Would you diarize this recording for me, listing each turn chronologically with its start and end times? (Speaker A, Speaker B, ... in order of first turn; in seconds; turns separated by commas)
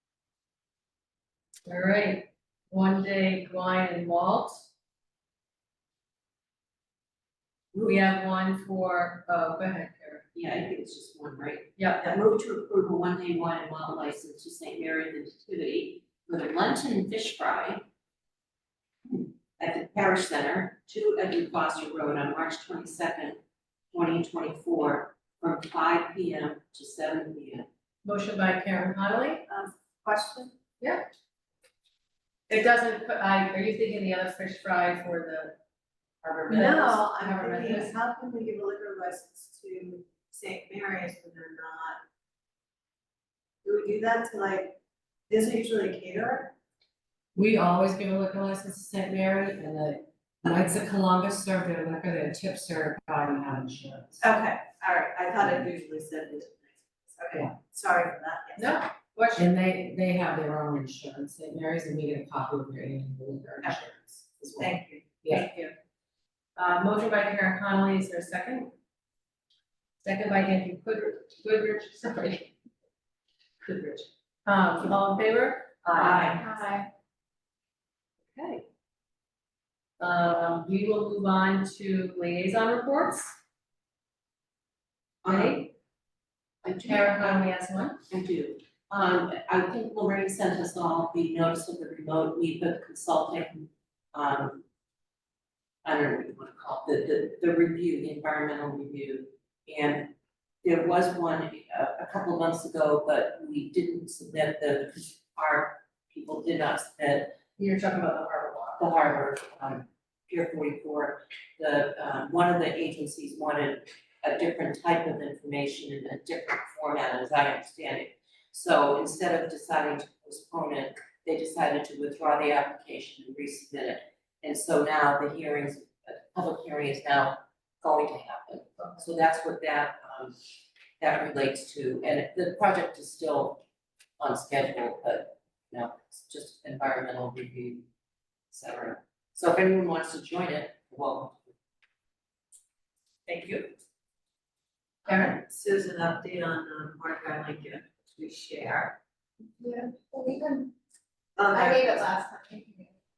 Speaker A: 1.6-4.7, Speaker B: 7.7-8.1, Speaker A: 7.8-10.2, Speaker B: 10.3-17.9, Speaker A: 11.8-12.1, Speaker B: 19.1-23.4, Speaker B: 23.9-27.7, Speaker A: 28.0-29.4, Speaker C: 29.5-30.5, Speaker A: 30.8-31.1, Speaker A: 32.5-35.5, Speaker A: 36.2-38.0, Speaker C: 36.5-42.0, Speaker C: 43.6-44.8, Speaker C: 45.3-46.5, Speaker D: 47.4-54.2, Speaker C: 54.2-58.8, Speaker A: 58.5-59.5, Speaker D: 59.4-65.4, Speaker C: 64.4-65.2, Speaker A: 65.3-65.7, Speaker A: 66.5-68.7, Speaker A: 70.0-72.5, Speaker A: 73.7-76.4, Speaker B: 75.9-76.4, Speaker E: 76.2-76.9, Speaker A: 78.3-78.6, Speaker A: 80.0-83.3, Speaker B: 85.2-85.7, Speaker A: 85.2-85.7, Speaker B: 86.6-87.5, Speaker A: 86.8-88.0, Speaker B: 88.1-94.6, Speaker B: 95.8-107.3, Speaker A: 107.6-108.9, Speaker B: 108.8-130.4, Speaker B: 131.0-133.6, Speaker B: 134.2-137.8, Speaker B: 138.5-141.5, Speaker A: 143.2-143.7, Speaker A: 145.0-145.3, Speaker C: 145.3-148.9, Speaker E: 149.6-150.7, Speaker C: 151.4-152.1, Speaker E: 151.4-152.9